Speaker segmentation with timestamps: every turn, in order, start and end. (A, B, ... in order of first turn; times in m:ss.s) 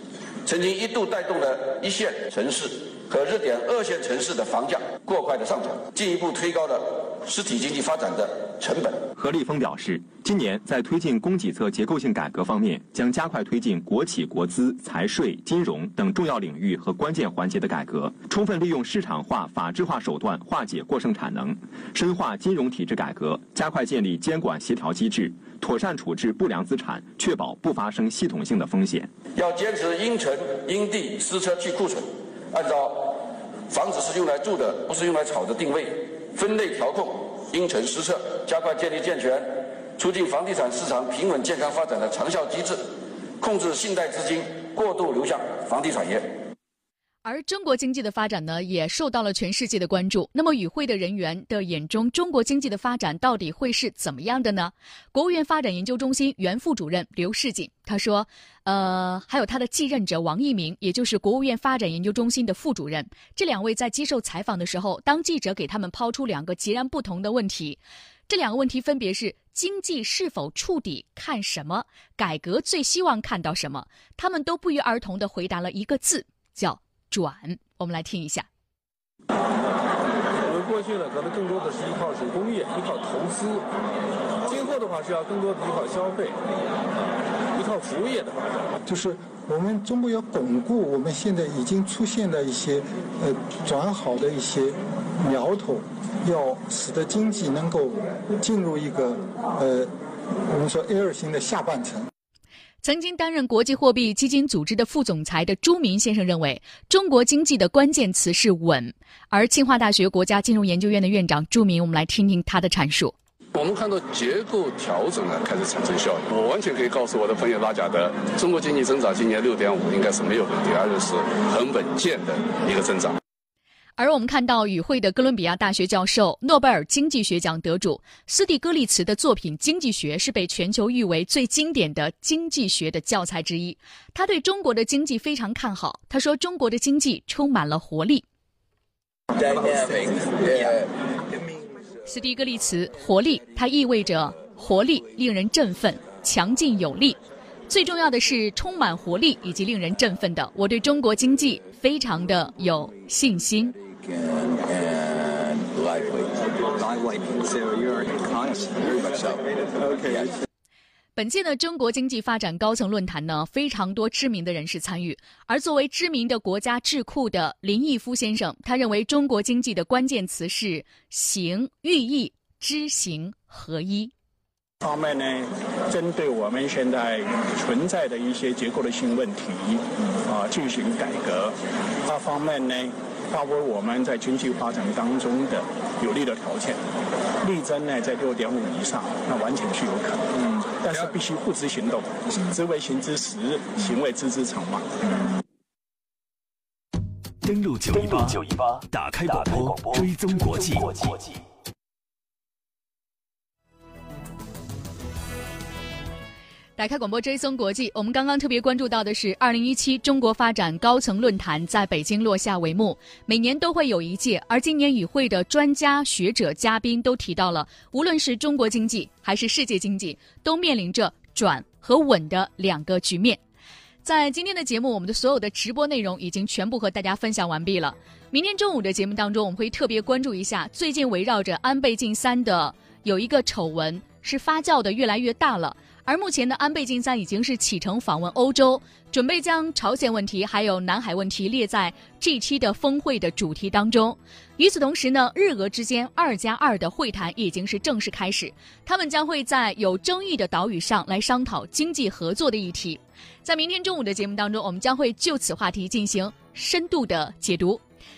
0:00.4-0:09.0 A
0:09.2-0:29.1 B
0:29.4-0:42.8 A
0:43.4-0:46.3 A
0:47.2-1:18.5 C
1:20.5-1:23.5 D
1:24.6-1:26.2 D
1:27.6-1:28.1 D
1:28.9-1:39.9 E
1:40.4-1:42.1 E
1:42.8-1:53.1 C
1:53.5-2:03.2 F
2:04.0-2:18.2 C
2:22.0-2:33.8 C
2:41.2-2:54.1 C
2:54.8-3:06.8 G
3:07.4-3:14.9 G
3:17.4-3:21.4 H
3:26.8-3:43.4 C
3:44.0-4:17.8 C